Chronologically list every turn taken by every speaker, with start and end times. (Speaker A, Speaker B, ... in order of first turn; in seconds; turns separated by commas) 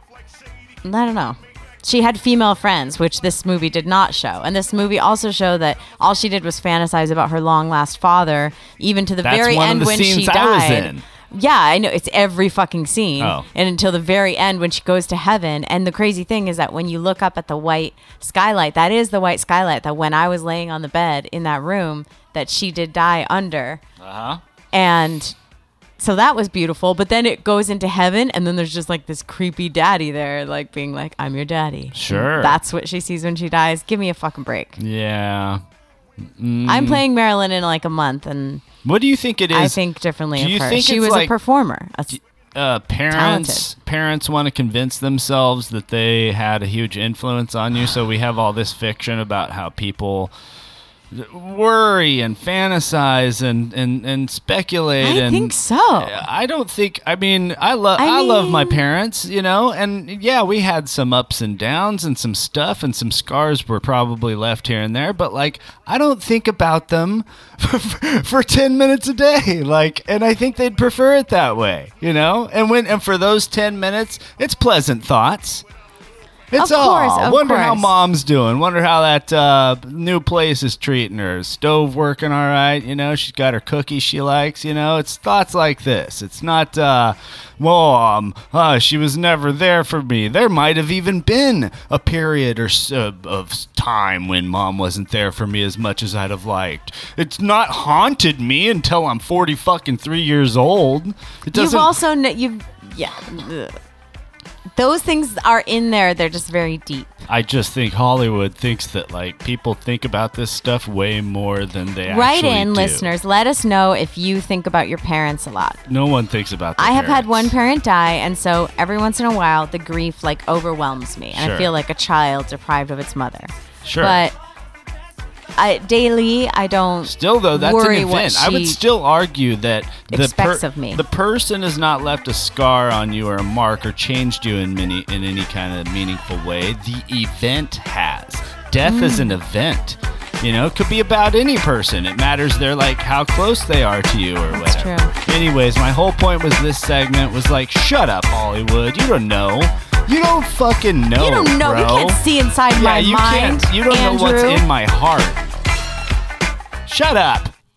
Speaker A: 0.8-23.8, Speaker B: 9.2-11.0, Speaker B: 13.2-13.5, Speaker B: 24.0-24.4, Speaker A: 24.7-25.3, Speaker A: 26.0-34.8, Speaker B: 31.9-32.6, Speaker B: 34.8-35.6, Speaker B: 36.2-37.0, Speaker A: 36.7-38.6, Speaker B: 38.8-39.8, Speaker A: 39.5-42.2, Speaker B: 40.4-41.3, Speaker B: 42.1-50.3, Speaker A: 43.1-43.7, Speaker B: 51.1-75.6, Speaker A: 55.0-56.2, Speaker A: 58.0-58.8, Speaker B: 76.5-101.9, Speaker A: 76.6-77.9, Speaker A: 101.5-103.7, Speaker A: 104.8-107.2, Speaker B: 107.3-113.1, Speaker A: 112.0-115.8, Speaker B: 115.9-117.5, Speaker A: 116.8-124.3, Speaker B: 121.3-121.7, Speaker B: 123.8-124.2, Speaker A: 125.6-128.8, Speaker B: 127.0-152.2, Speaker A: 130.1-131.0, Speaker A: 138.8-139.3, Speaker A: 144.5-145.1, Speaker A: 151.2-154.6, Speaker B: 152.7-155.5, Speaker B: 156.8-157.5